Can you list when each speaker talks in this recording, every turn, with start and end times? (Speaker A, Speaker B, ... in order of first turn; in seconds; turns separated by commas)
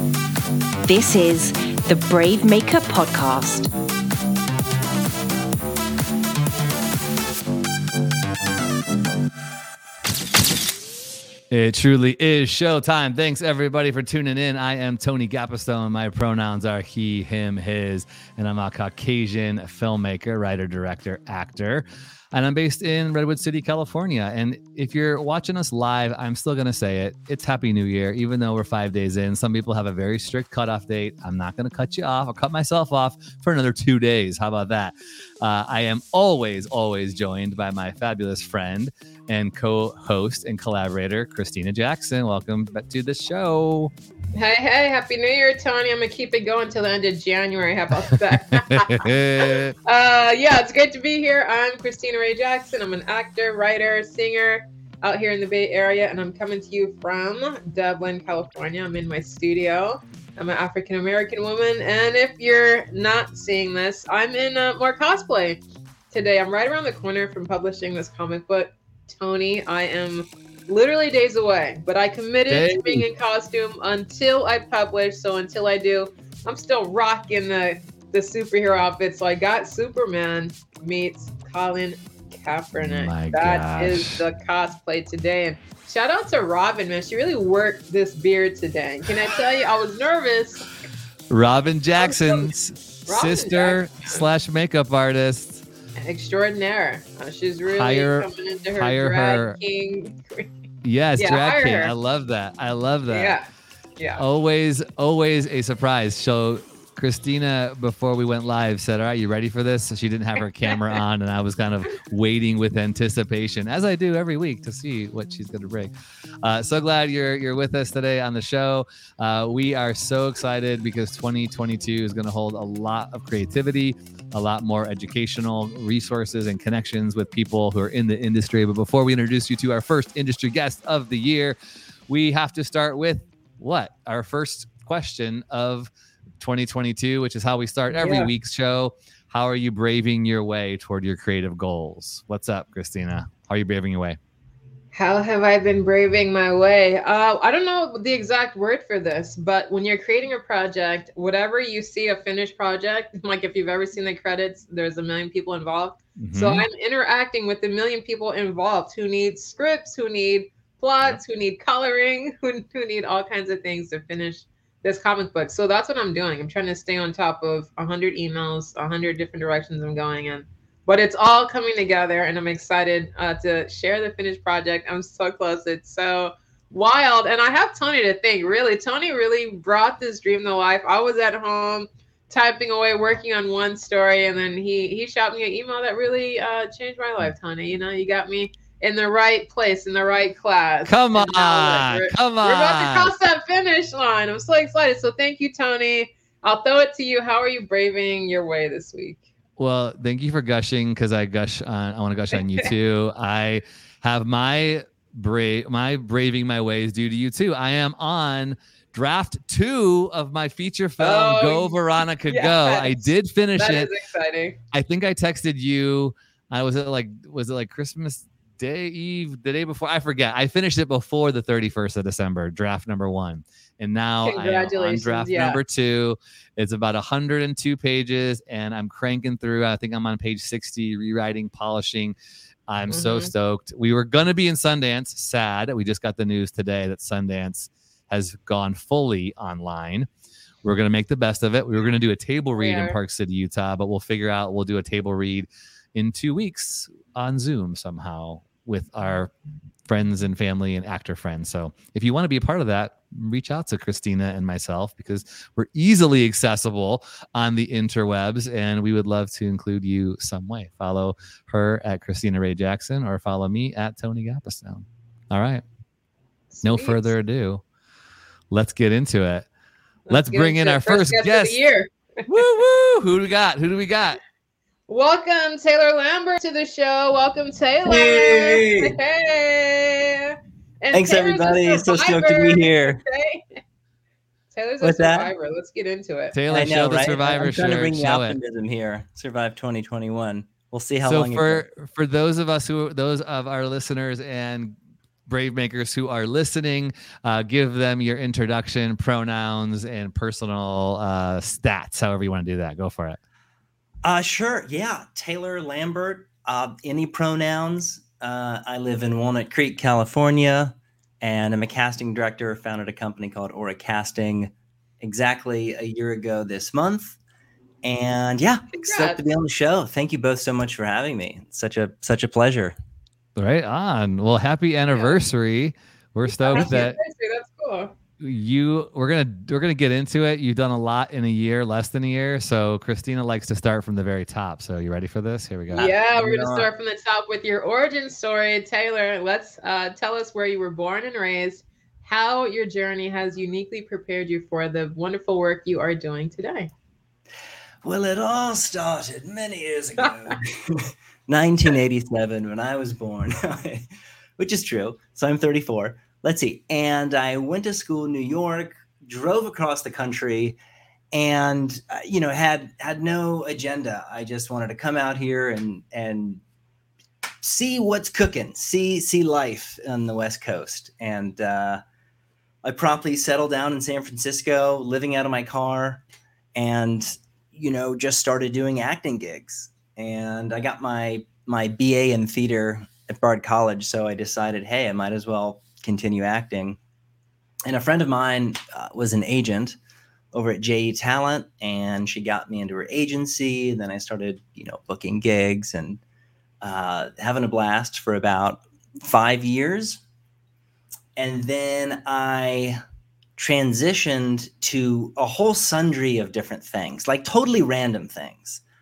Speaker A: 0.8-3.7, Speaker B: 11.5-43.9, Speaker C: 44.3-90.7, Speaker B: 48.5-49.8, Speaker B: 72.5-73.0, Speaker B: 82.8-84.2, Speaker B: 91.3-95.6, Speaker C: 92.0-92.5, Speaker C: 93.1-94.2, Speaker C: 96.0-100.5, Speaker B: 97.8-99.6, Speaker B: 100.8-103.4, Speaker C: 101.2-101.9, Speaker C: 103.1-103.5, Speaker B: 104.2-131.6, Speaker C: 110.7-111.0, Speaker B: 132.1-135.9, Speaker B: 136.4-144.2, Speaker C: 137.9-138.3, Speaker C: 144.9-199.2, Speaker B: 156.2-156.7, Speaker B: 190.9-193.1, Speaker B: 199.6-213.9, Speaker C: 202.3-202.7, Speaker C: 211.0-214.6, Speaker B: 214.7-232.2, Speaker C: 224.2-225.6, Speaker B: 232.7-240.1, Speaker C: 232.9-233.3, Speaker B: 240.6-249.3, Speaker C: 242.6-243.0, Speaker B: 249.9-265.6, Speaker C: 266.5-267.1, Speaker B: 266.6-267.6, Speaker B: 268.5-269.5, Speaker C: 270.1-271.9, Speaker B: 270.1-271.6, Speaker B: 272.3-274.2, Speaker C: 274.9-283.6, Speaker D: 277.9-278.9, Speaker D: 280.9-283.0, Speaker C: 284.5-286.4, Speaker D: 284.8-285.3, Speaker B: 286.3-288.4, Speaker D: 286.5-291.7, Speaker B: 291.1-294.8, Speaker B: 295.3-303.2, Speaker D: 304.0-317.2, Speaker D: 317.8-322.8, Speaker C: 318.7-319.2, Speaker B: 323.4-327.0, Speaker C: 324.9-325.2, Speaker C: 326.4-327.9, Speaker D: 326.5-326.8, Speaker B: 328.2-335.9, Speaker D: 335.7-336.7, Speaker C: 335.8-346.7, Speaker D: 347.8-353.9, Speaker C: 350.0-350.4, Speaker D: 354.4-360.6, Speaker D: 361.1-366.4, Speaker D: 367.4-371.8, Speaker D: 372.6-376.0, Speaker D: 376.6-386.8, Speaker D: 387.7-389.8, Speaker D: 390.3-396.0, Speaker D: 396.6-400.0, Speaker D: 401.2-402.8, Speaker D: 403.4-408.6